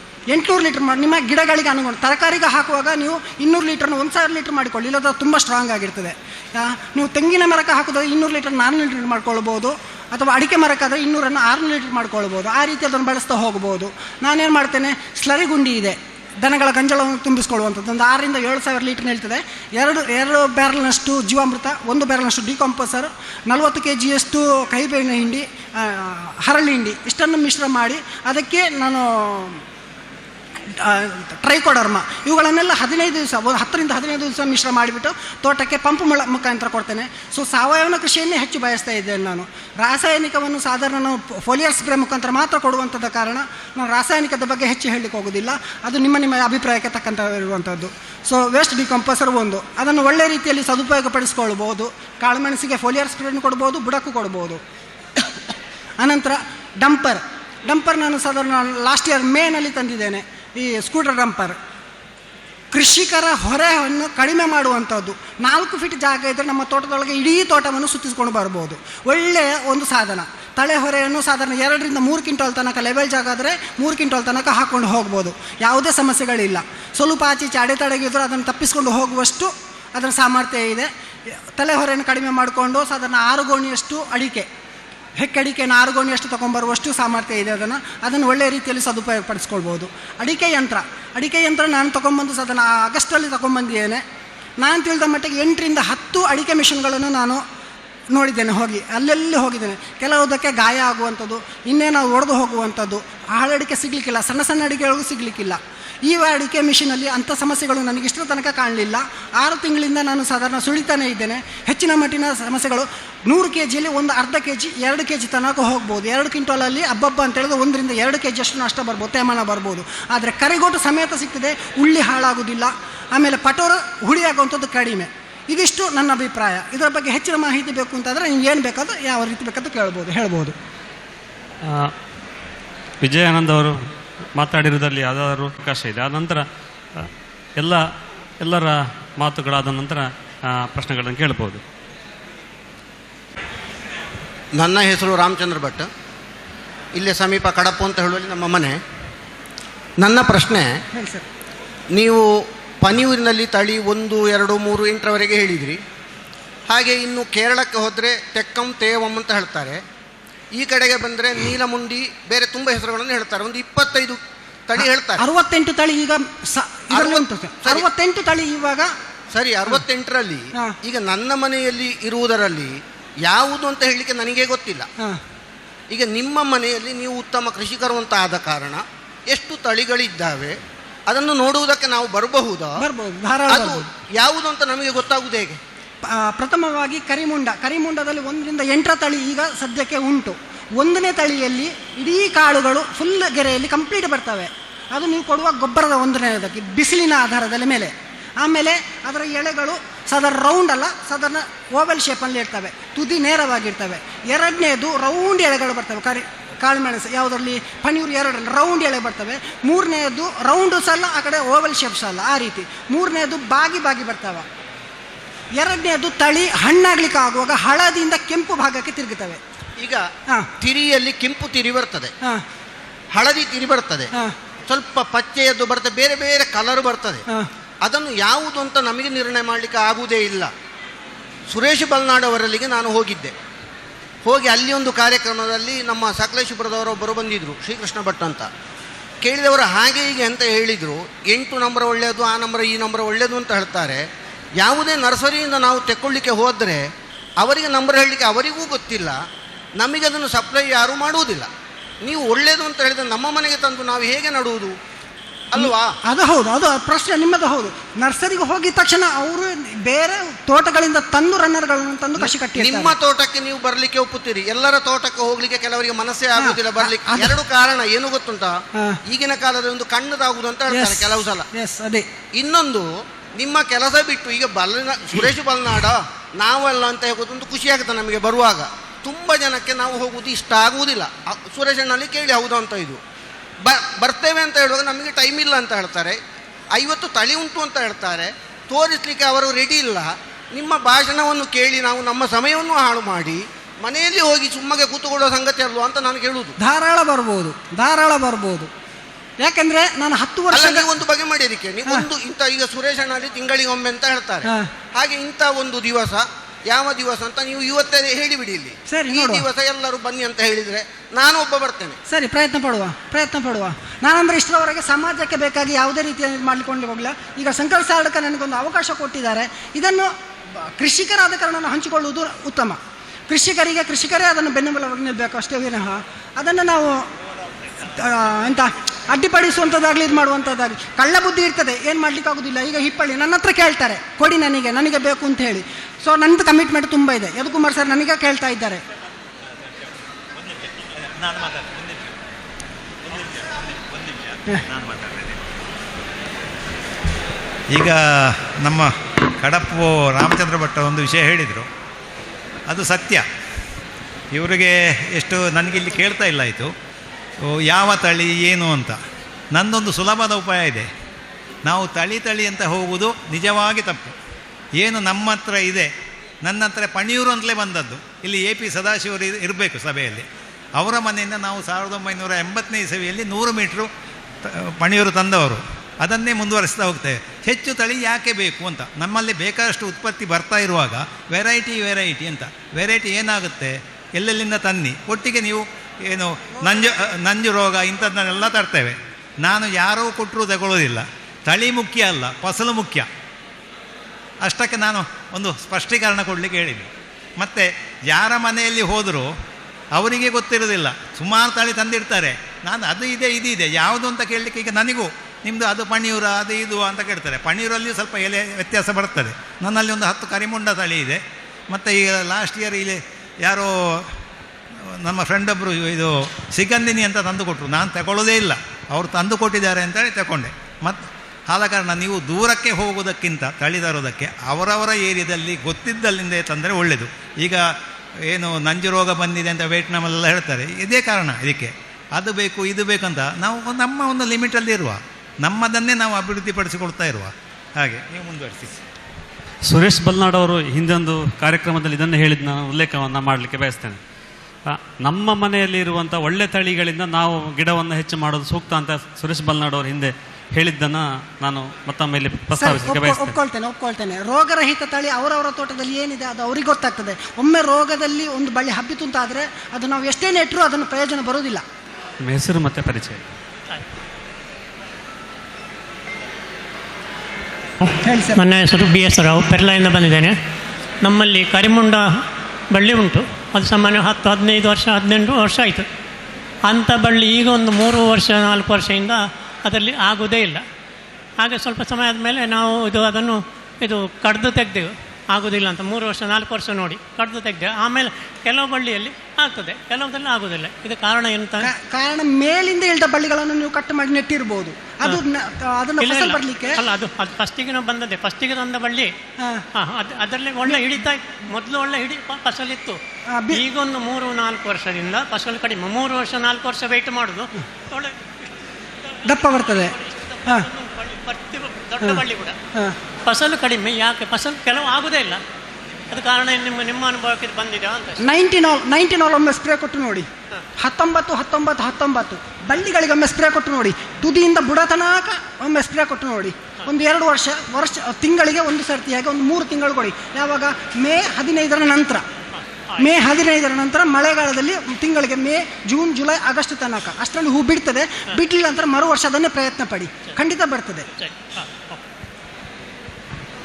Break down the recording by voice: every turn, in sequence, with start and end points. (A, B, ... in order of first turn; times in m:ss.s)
0:00.3-0:29.6 A
0:30.7-0:54.6 A
0:56.0-1:01.6 A
1:02.7-1:24.5 A
1:25.2-1:34.0 A
1:34.6-1:37.4 A
1:38.1-2:10.5 A
2:11.6-2:11.9 B
2:13.0-2:13.8 B
2:14.4-2:17.8 B
2:18.4-2:21.6 B
2:24.6-2:25.9 C
2:27.0-2:28.8 C
2:30.0-2:30.8 C
2:30.9-2:31.2 A
2:31.9-2:32.3 C
2:32.8-2:35.8 C
2:36.7-2:39.8 C
2:40.5-2:45.2 C
2:44.8-2:48.9 A
2:46.9-2:47.8 C
2:49.3-2:54.9 C
2:55.9-3:00.6 C
3:01.1-3:02.8 C
3:02.8-3:03.9 A
3:03.5-3:05.6 C
3:06.0-3:34.5 A
3:35.6-3:39.4 A
3:39.8-3:40.0 C
3:40.6-3:42.1 C
3:43.1-3:44.1 C
3:44.7-3:47.2 C
3:47.8-3:50.5 C
3:51.5-3:53.3 C
3:54.2-3:58.5 C
3:59.2-4:04.0 C
4:04.6-4:06.9 C
4:07.4-4:09.2 C
4:09.8-4:11.5 C
4:12.0-4:14.8 C
4:15.5-4:16.0 C
4:15.6-4:23.0 A
4:22.2-4:31.5 C
4:26.4-4:27.4 A
4:28.7-4:29.0 A
4:30.7-4:32.1 A
4:32.4-4:43.0 C
4:43.6-4:46.2 C
4:46.8-4:56.5 C
4:56.6-4:58.7 A
4:59.4-5:00.9 A
5:00.5-5:12.0 C
5:08.9-5:09.5 A
5:12.1-5:27.1 A
5:27.8-5:38.8 A
5:40.4-5:42.2 D
5:43.0-5:45.5 D
5:47.7-5:51.7 D
5:52.7-5:53.2 D
5:54.3-5:56.7 D
5:57.4-5:59.0 D
5:59.5-6:00.9 D
6:01.6-6:04.1 D
6:04.8-6:05.9 D
6:06.4-6:10.2 D
6:10.8-6:13.9 D
6:14.4-6:33.1 D
6:34.4-6:39.3 D
6:39.9-6:54.1 D
6:54.8-7:07.7 D
7:08.2-7:18.8 D
7:19.7-7:24.0 B
7:24.7-7:33.4 B
7:32.6-7:41.6 A
7:42.2-7:43.3 B
7:48.0-7:48.4 A
7:48.4-7:50.4 E
7:51.0-7:55.8 E
7:56.6-8:00.6 E
8:01.4-8:11.7 E
8:11.6-8:16.8 A
8:16.0-8:19.1 E
8:19.4-8:19.6 A
8:19.7-8:23.0 E
8:23.3-8:23.6 A
8:23.5-8:28.5 E
8:29.1-8:32.6 E
8:29.2-8:29.9 A
8:33.2-8:35.4 E
8:36.1-8:38.2 E
8:38.2-8:52.2 A
8:52.6-8:53.0 E
8:53.0-9:01.0 A
9:01.2-9:02.0 E